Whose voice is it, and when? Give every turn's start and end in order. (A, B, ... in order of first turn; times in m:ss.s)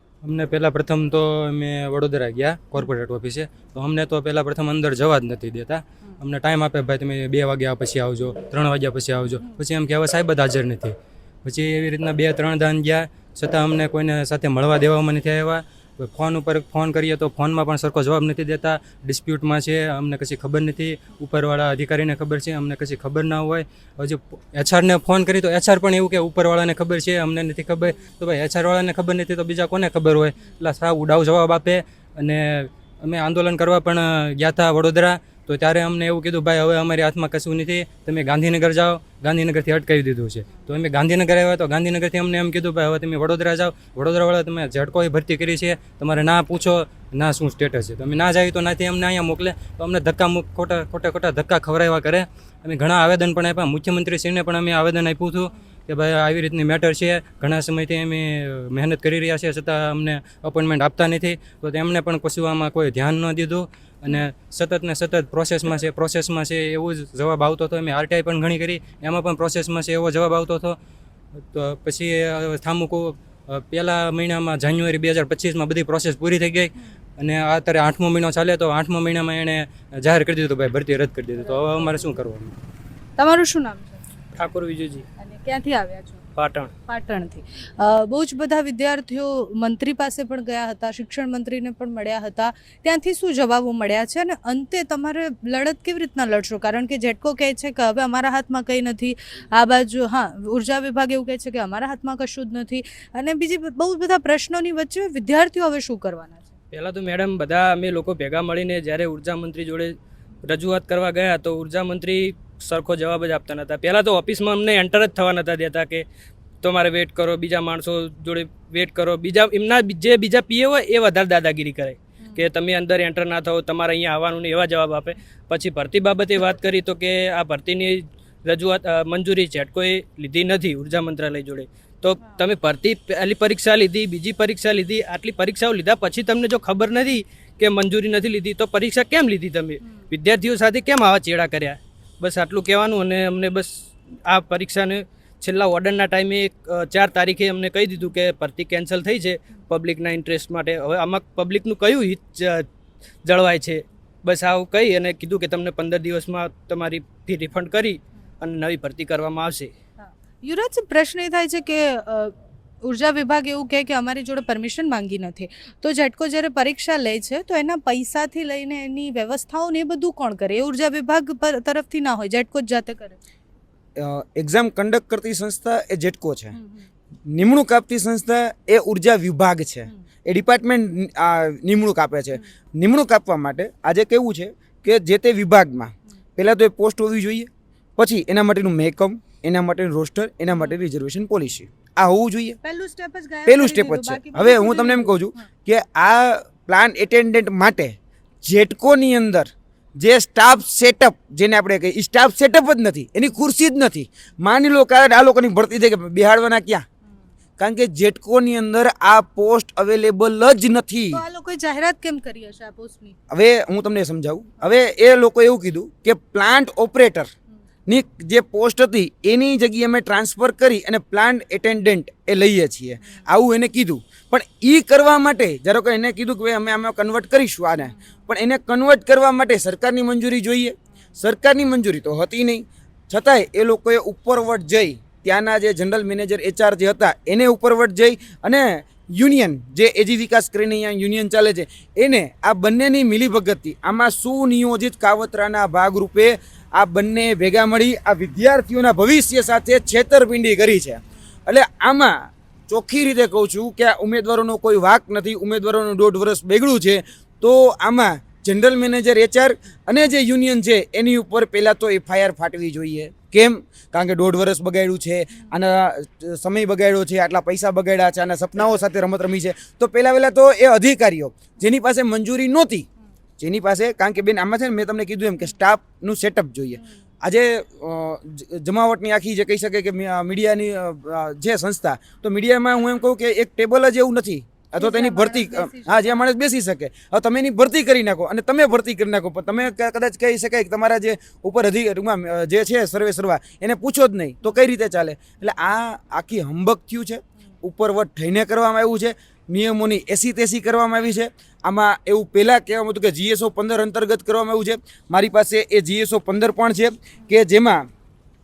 0:00.2-1:10.8 A
1:11.5-1:22.6 A
1:21.4-1:22.0 B
1:23.2-1:24.0 B
1:24.3-1:25.0 C
1:25.2-1:26.2 B
1:26.3-1:26.7 C
1:26.8-1:46.5 B
1:46.7-1:56.0 C
1:56.6-2:32.6 C
2:33.2-2:39.7 C
2:40.0-2:53.2 B
2:54.0-2:56.6 D
2:56.5-2:56.9 B
2:57.3-3:12.6 D
3:12.6-3:15.4 B
3:13.4-3:26.8 D
3:27.6-3:31.2 D
3:31.1-3:33.2 B
3:33.3-3:37.3 D
3:37.9-4:32.9 D
4:33.4-5:07.9 D
4:44.8-4:46.2 B